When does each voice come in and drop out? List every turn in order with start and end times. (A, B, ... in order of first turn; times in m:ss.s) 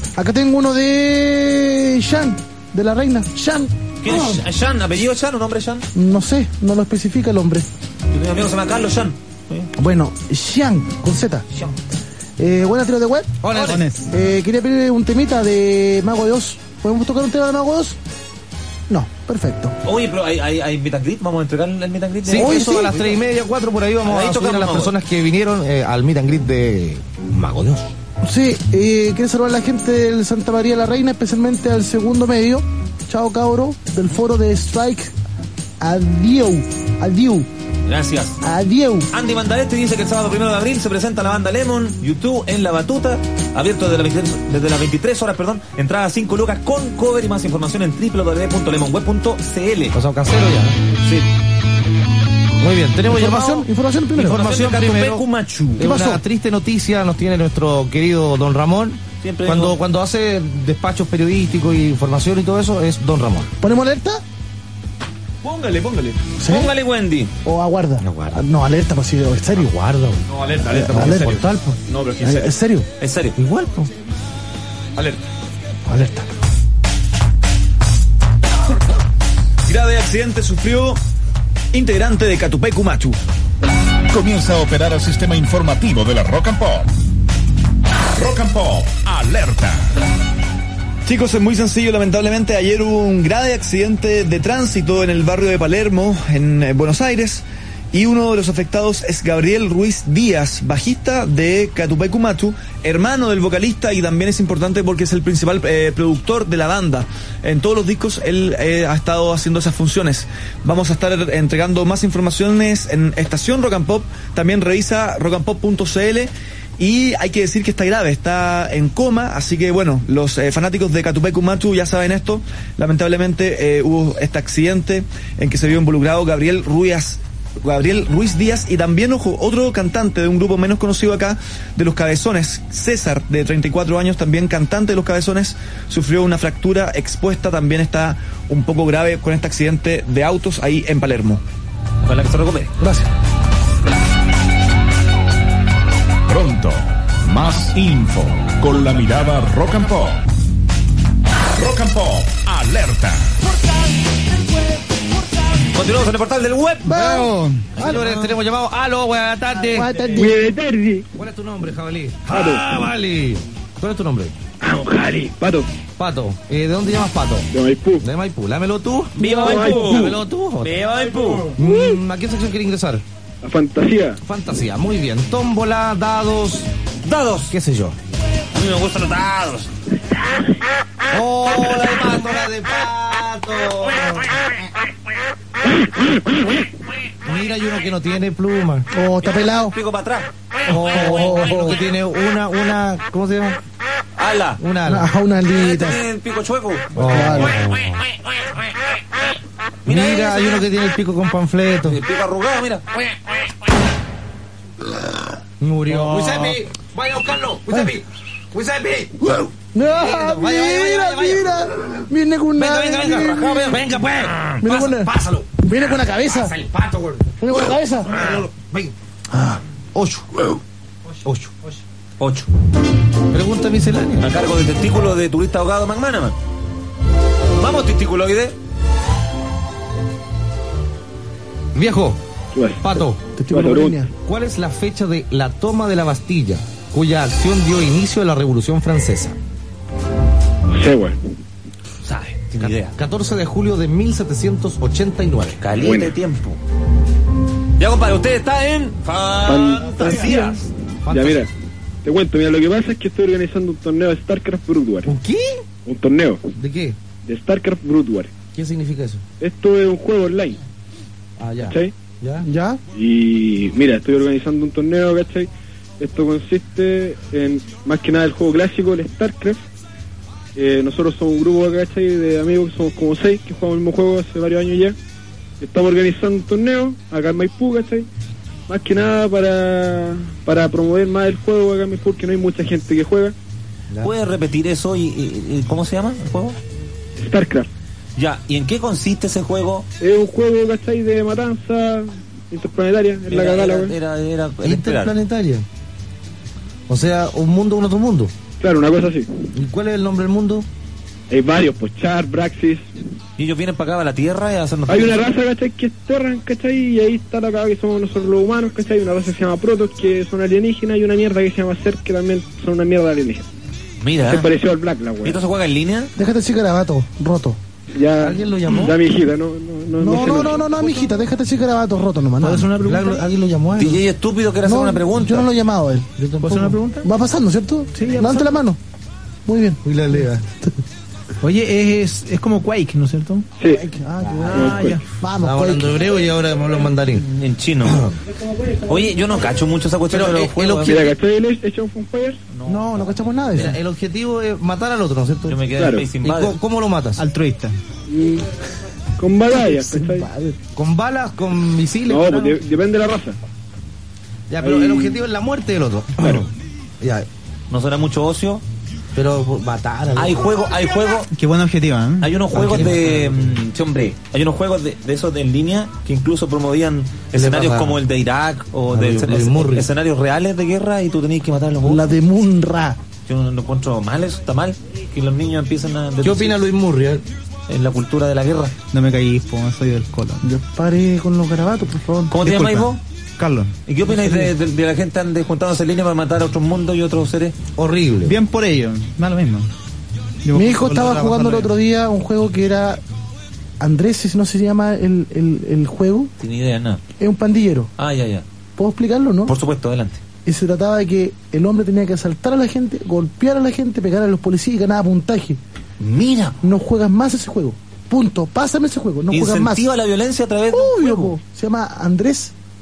0:00.2-0:04.2 A
0:04.0-0:05.8 B
0:05.9-0:07.6 A
0:08.1-0:09.7 B
0:09.8-0:11.4 A
0:12.4-0:13.3 A
0:13.4-0:13.8 C
0:14.1-0:18.0 A
0:18.9-0:19.7 A
0:19.8-0:23.2 B
0:22.3-0:27.9 C
0:22.4-0:22.9 A
0:24.0-0:24.9 B
0:28.2-0:35.1 A
0:35.8-0:37.5 A
0:37.9-0:38.4 B
0:38.4-0:39.1 A
0:39.1-0:50.0 B
0:49.9-0:50.8 C
0:52.6-0:55.2 C
0:53.1-0:54.4 A
0:54.2-0:55.9 B
0:55.8-1:03.5 C
0:55.8-0:56.2 A
0:59.2-0:59.8 B
1:03.6-1:04.2 A
1:05.4-1:07.3 B
1:06.4-1:06.7 A
1:07.4-1:12.9 A
1:08.0-1:08.4 C
1:10.9-1:11.6 C
1:13.0-1:13.4 B
1:13.4-1:13.9 C
1:15.9-1:16.3 A
1:19.7-1:21.0 D
1:21.7-1:23.2 D
1:24.1-1:26.9 E
1:28.2-1:29.9 E
1:31.0-2:21.4 D
2:22.0-2:22.7 B
2:22.8-2:23.1 A
2:26.3-2:30.2 E
2:31.6-2:33.3 E
2:35.7-2:37.1 B
2:36.8-2:38.2 A
2:37.8-2:39.9 C
2:39.7-2:40.4 A
2:40.2-2:41.0 F
2:41.1-2:44.3 C
2:42.3-2:42.6 F
2:44.6-2:45.7 F
2:46.0-2:47.5 C
2:47.5-2:48.0 F
2:48.0-2:50.8 C
2:49.2-2:51.6 B
2:49.4-2:49.9 F
2:51.4-2:53.0 C
2:53.4-2:54.2 F
2:54.2-2:56.7 C
2:57.0-2:57.5 B
2:57.5-2:58.0 C
2:58.5-2:59.7 B
3:01.1-3:04.1 C
3:07.2-3:08.9 C
3:08.9-3:09.8 A
3:09.2-3:10.3 B
3:10.7-3:13.6 C
3:10.8-3:11.8 A
3:10.9-3:11.2 B
3:14.2-3:14.6 B
3:14.6-3:15.1 C
3:14.9-3:16.0 A
3:15.5-3:17.1 B
3:17.0-3:17.9 C
3:17.0-3:17.6 A
3:19.8-3:20.7 B
3:19.8-3:22.0 C
3:21.8-3:22.8 B
3:25.6-3:31.7 C
3:25.9-3:26.6 A
3:27.7-3:27.9 A
3:29.2-3:33.7 A
3:32.6-3:37.3 C
3:34.6-3:36.5 A
3:37.4-3:38.1 A
3:38.0-3:38.9 C
3:39.3-3:39.6 A
3:39.9-3:40.3 C
3:41.2-3:41.5 C
3:42.2-3:42.5 B
3:43.3-3:44.3 C
3:44.2-3:46.4 B
3:47.6-3:48.5 B
3:51.7-3:52.2 C
3:52.5-3:52.9 F
3:52.8-3:53.2 C
3:53.3-3:54.1 A
3:53.5-3:54.0 F
3:54.2-3:59.4 C
4:00.7-4:01.2 F
4:02.0-4:02.9 B
4:02.6-4:05.6 C
4:05.6-4:06.6 B
4:05.8-4:06.1 F
4:07.8-4:10.6 B
4:09.4-4:10.5 F
4:10.1-4:10.5 C
4:11.0-4:11.4 C
4:11.1-4:11.5 F
4:12.0-4:15.1 F
4:15.0-4:15.6 C
4:15.8-4:16.4 F
4:16.5-4:17.0 C
4:17.2-4:18.3 F
4:18.5-4:19.2 C
4:19.4-4:20.6 F
4:21.4-4:22.5 C
4:21.6-4:21.9 F
4:22.4-4:22.8 A
4:22.9-4:29.6 F
4:30.6-4:35.0 F
4:35.6-4:38.1 F
4:38.7-4:43.3 F
4:44.0-4:46.6 B
4:47.2-4:47.7 F
4:48.2-4:49.9 B
4:50.0-4:53.9 F
4:53.3-4:55.1 B
4:54.6-4:55.6 C
4:56.9-4:58.3 C
4:58.6-4:59.3 F
4:59.6-5:00.7 C
5:01.3-5:02.9 F
5:03.4-5:05.3 B
5:04.9-5:13.5 F
5:14.0-5:14.5 B
5:14.2-5:15.4 F
5:15.2-5:16.1 B
5:16.2-5:17.6 A
5:17.9-5:20.8 F
5:18.2-5:19.0 C
5:20.0-5:22.8 A
5:22.4-5:23.2 G
5:22.5-5:24.0 C
5:23.8-5:25.5 B
5:24.6-5:26.1 A
5:26.2-5:26.8 C
5:26.4-5:27.0 G
5:27.0-5:28.8 A
5:28.0-5:28.4 G
5:29.4-5:29.8 A
5:29.8-5:30.4 C
5:31.4-5:33.4 G
5:33.7-5:36.0 A
5:34.2-5:34.7 C
5:34.5-5:35.0 F
5:35.4-5:37.2 C
5:37.2-5:38.1 B
5:37.8-5:38.1 C
5:38.9-5:41.1 B
5:40.1-5:41.0 C
5:40.9-5:42.4 F
5:42.5-5:43.7 B
5:42.6-5:43.7 A
5:43.6-5:45.6 C
5:45.5-5:46.6 B
5:45.8-5:46.0 F
5:46.2-5:47.2 C
5:47.2-5:47.7 G
5:48.1-5:48.4 F
5:49.2-5:50.3 F
5:49.5-5:50.6 A
5:50.7-5:52.6 C
5:52.1-5:53.4 F
5:54.5-5:56.5 C
5:54.6-5:55.2 F
5:57.0-5:57.3 C
5:57.7-5:58.6 B
5:59.2-6:00.4 C
6:00.1-6:01.3 B
6:01.3-6:02.3 G
6:02.2-6:12.1 B
6:02.5-6:03.6 C
6:07.3-6:08.0 C
6:08.9-6:09.9 C
6:11.8-6:13.0 A
6:13.3-6:16.6 B
6:16.2-6:17.2 C
6:17.7-6:18.7 B
6:18.9-6:20.4 G
6:20.4-6:22.7 A
6:22.3-6:23.0 B
6:23.4-6:23.7 G
6:23.9-6:27.6 B
6:27.8-6:28.3 C
6:28.2-6:29.7 G
6:30.4-6:31.7 G
6:30.5-6:33.0 A
6:33.8-6:36.3 A
6:36.4-6:37.0 B
6:37.2-6:37.9 A
6:38.0-6:38.4 B
6:38.8-6:39.6 A
6:39.5-6:40.2 B
6:40.4-6:45.6 A
6:46.0-6:46.6 B
6:46.6-6:49.8 A
6:49.3-6:51.4 B
6:50.7-6:52.5 A